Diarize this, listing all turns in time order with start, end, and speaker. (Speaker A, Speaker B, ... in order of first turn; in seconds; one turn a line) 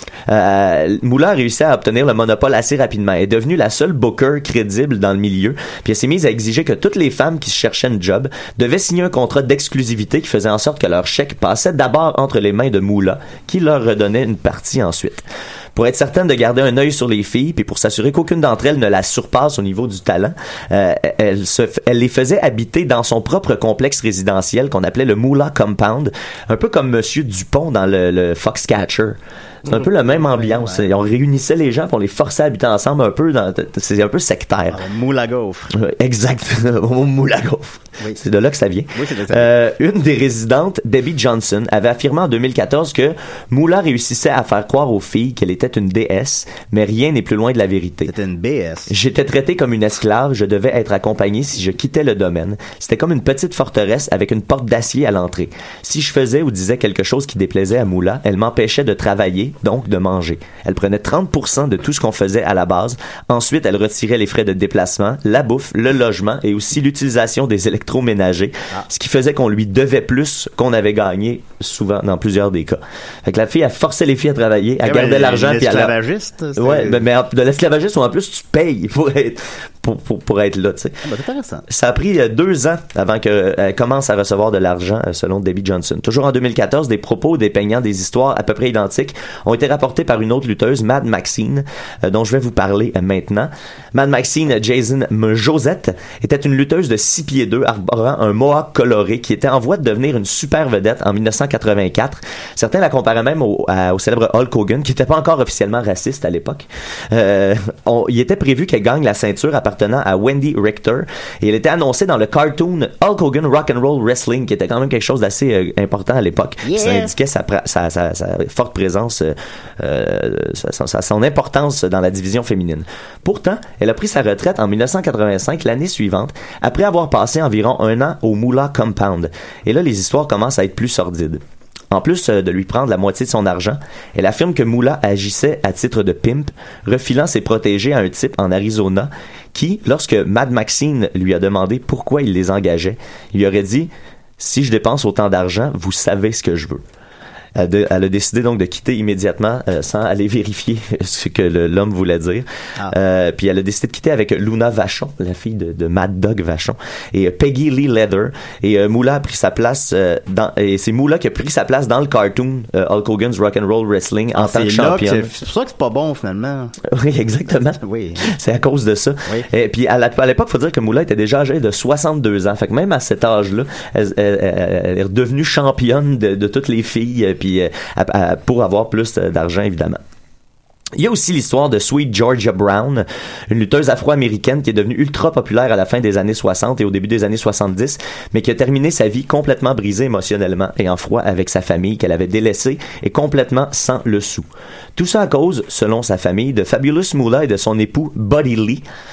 Speaker A: 0.3-34.8
Speaker B: 29.7-30.9
Speaker B: 34.7-35.7
Speaker A: 35.7-48.1
Speaker B: 38.9-39.5
Speaker B: 48.0-48.9
Speaker A: 48.9-75.9
Speaker B: 74.8-77.0
Speaker A: 76.6-81.0
Speaker B: 81.0-81.6
Speaker A: 81.7-146.8
Speaker B: 116.6-117.1
Speaker A: 147.6-165.3
Speaker B: 164.3-166.7
Speaker A: 166.9-180.0
Speaker B: 167.8-168.3
Speaker A: 180.9-198.8